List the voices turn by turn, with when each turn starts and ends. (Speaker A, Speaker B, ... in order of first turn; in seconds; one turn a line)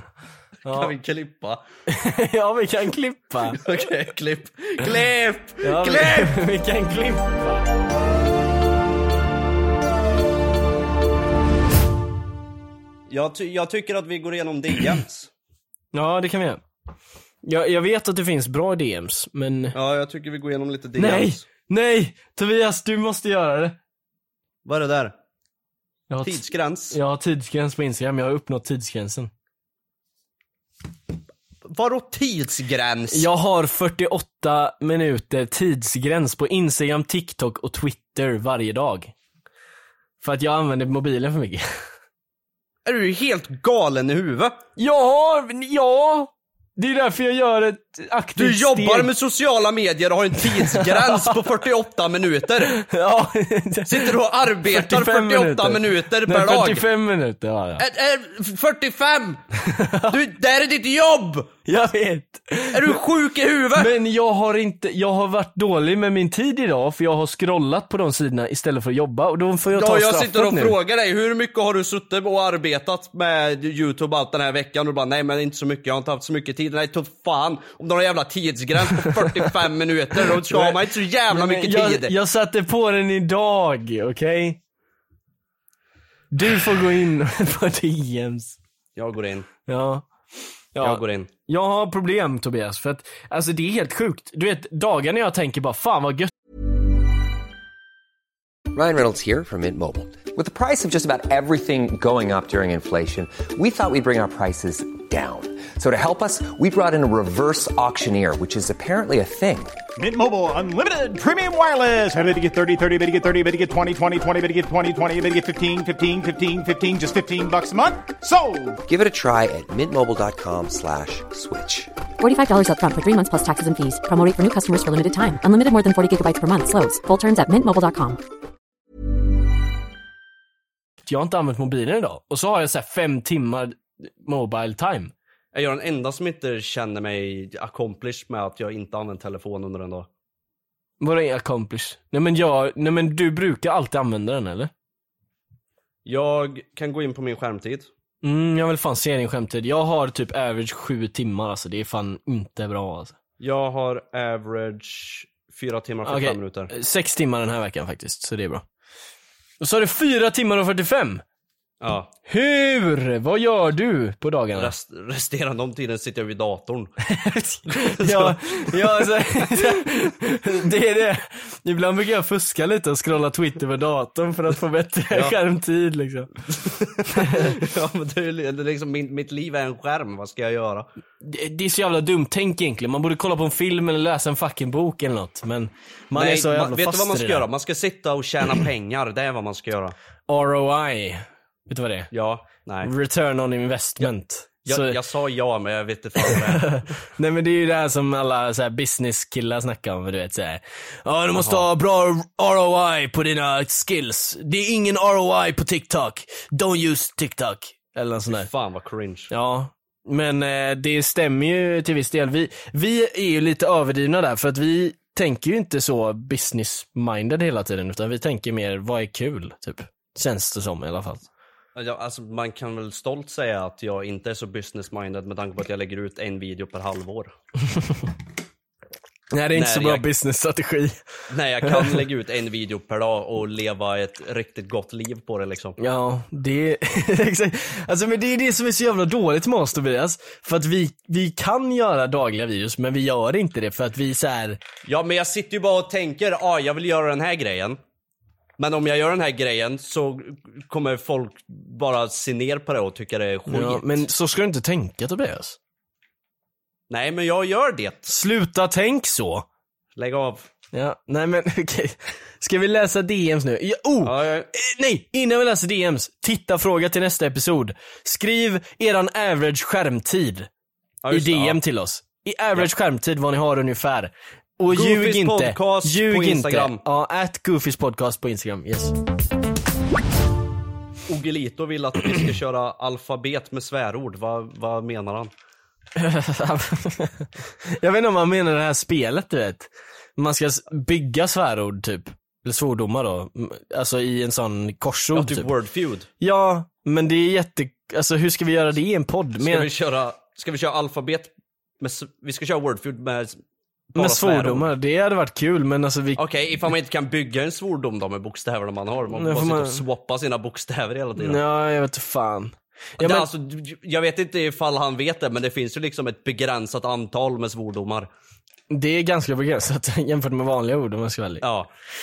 Speaker A: 0.6-0.9
Speaker B: 0.6-1.6
Speaker A: 1.9-3.6
Speaker B: 3.5-6.3
Speaker A: 5.6-7.7
Speaker B: 13.1-15.3
Speaker A: 15.9-16.6
Speaker A: 17.4-19.8
Speaker B: 19.7-21.4
Speaker A: 21.0-23.8
Speaker B: 24.6-25.1
Speaker A: 26.1-29.3
Speaker B: 26.2-27.0
Speaker B: 31.7-33.3
Speaker A: 33.1-39.1
Speaker A: 40.2-41.6
Speaker B: 42.8-44.6
Speaker A: 44.8-49.1
Speaker B: 48.4-52.8
Speaker A: 50.4-51.4
Speaker A: 52.6-57.8
Speaker B: 53.9-56.8
Speaker B: 57.8-59.4
Speaker A: 59.6-60.2
Speaker B: 60.1-61.5
Speaker A: 61.6-63.0
Speaker B: 62.7-63.9
Speaker A: 63.7-70.8
Speaker B: 69.7-82.1
Speaker A: 79.0-79.4
Speaker A: 80.2-84.6
Speaker A: 86.3-88.6
Speaker B: 89.0-89.5
Speaker A: 89.7-90.0
Speaker A: 90.7-96.3
Speaker B: 90.8-91.3
Speaker C: 98.7-109.8
Speaker D: 110.0-118.8
Speaker C: 118.8-121.9
Speaker E: 122.2-128.2
Speaker A: 131.0-135.1
Speaker B: 135.5-140.1
Speaker A: 141.0-144.7
Speaker B: 146.1-147.9
Speaker A: 148.2-153.2
Speaker B: 153.4-156.7
Speaker A: 156.0-158.6
Speaker A: 159.6-161.2
Speaker B: 161.8-162.1
Speaker A: 162.3-164.7
Speaker B: 164.5-166.9
Speaker A: 167.1-176.3
Speaker B: 167.7-169.8
Speaker B: 175.1-175.4
Speaker B: 176.5-180.9
Speaker A: 177.1-177.6
Speaker A: 181.2-187.5
Speaker B: 186.1-189.9
Speaker A: 190.3-192.1
Speaker B: 192.1-192.9
Speaker A: 192.8-195.0
Speaker B: 194.6-196.8
Speaker A: 196.2-208.5
Speaker B: 201.3-201.6
Speaker B: 208.4-209.3
Speaker A: 209.3-221.3
Speaker B: 221.8-227.3
Speaker A: 227.7-228.1
Speaker A: 229.3-231.0
Speaker B: 229.5-230.1
Speaker B: 231.3-235.8
Speaker A: 231.6-232.0
Speaker A: 235.8-244.6
Speaker B: 244.8-247.8
Speaker B: 248.6-254.0
Speaker A: 253.5-255.6
Speaker B: 256.9-258.1
Speaker A: 258.1-259.4
Speaker B: 259.9-260.5
Speaker A: 260.7-270.5
Speaker B: 264.0-264.5
Speaker B: 271.0-271.6
Speaker A: 271.1-278.9
Speaker B: 274.7-276.8
Speaker B: 281.1-285.3
Speaker A: 285.9-295.5
Speaker B: 295.1-296.1
Speaker A: 296.2-299.7
Speaker B: 299.4-303.4
Speaker B: 303.9-304.7
Speaker A: 303.9-306.2
Speaker B: 306.2-311.4
Speaker A: 309.1-309.8
Speaker A: 311.2-313.3
Speaker B: 313.0-318.1
Speaker A: 318.7-321.4
Speaker B: 321.4-321.7